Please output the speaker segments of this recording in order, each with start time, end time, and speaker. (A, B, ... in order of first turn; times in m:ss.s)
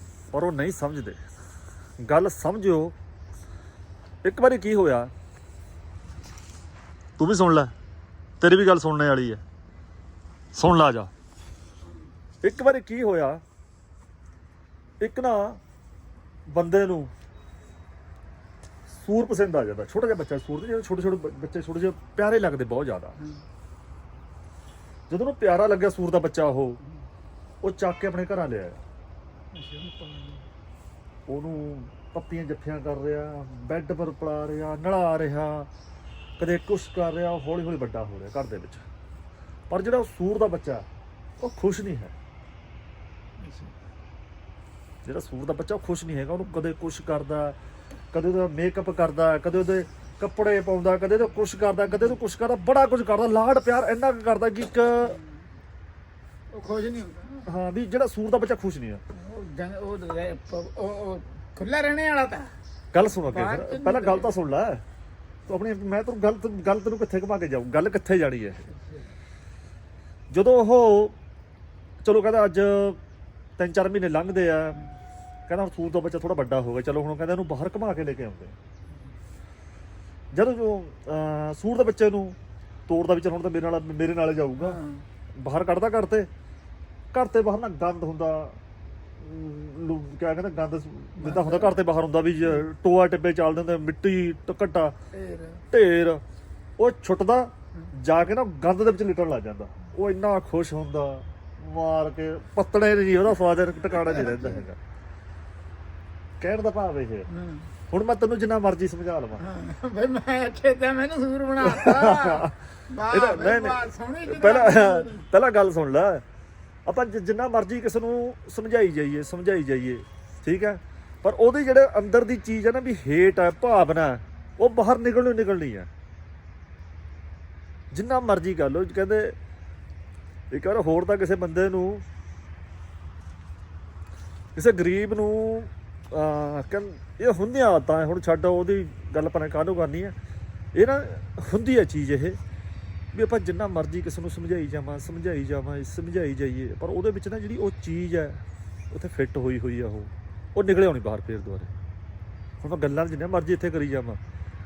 0:00.3-0:01.2 A
0:02.0-0:03.0 A
0:04.2-0:05.1 A
0:07.2-0:07.7 A
0:08.4-0:09.4 A
0:10.5-0:11.1 A
0:12.4-0:13.4 A
0:15.0-0:15.6 A
0:16.5-0:17.1 A
0:18.9-0:23.2 A
0:25.1-0:26.8 A
0:27.6-0:28.8 A
0:29.5-0:30.5 B
0:31.3-0:35.7 A
0:36.4-0:38.8 A
0:39.7-0:40.9 A
0:41.4-0:42.2 A
0:43.4-0:43.7 B
0:45.0-0:47.6 A
0:48.1-0:55.2 A
0:56.5-0:57.5 B
0:57.4-0:59.0 A
0:59.1-1:02.5 B
1:02.9-1:04.8 A
1:03.3-1:04.4 B
1:05.5-1:08.7 A
1:10.3-1:11.2 A
1:12.0-1:13.0 A
1:13.6-1:14.9 A
1:15.5-1:18.6 A
1:20.3-1:22.4 A
1:22.9-1:24.8 A
1:24.6-1:25.0 B
1:25.4-1:26.3 A
1:27.1-1:28.6 A
1:29.2-1:35.0 A
1:31.2-1:31.8 B
1:35.1-1:35.6 B
1:35.7-1:36.2 A
1:36.8-1:44.8 A
1:43.9-1:44.6 B
1:46.4-1:47.3 A
1:47.3-1:47.7 B
1:47.9-1:49.5 A
1:49.4-1:55.2 B
1:51.6-1:56.2 A
1:56.9-2:05.9 A
2:07.9-2:09.4 A
2:10.5-2:12.0 A
2:14.6-2:20.2 A
2:20.7-2:22.4 A
2:23.1-2:31.7 A
2:32.6-2:34.2 A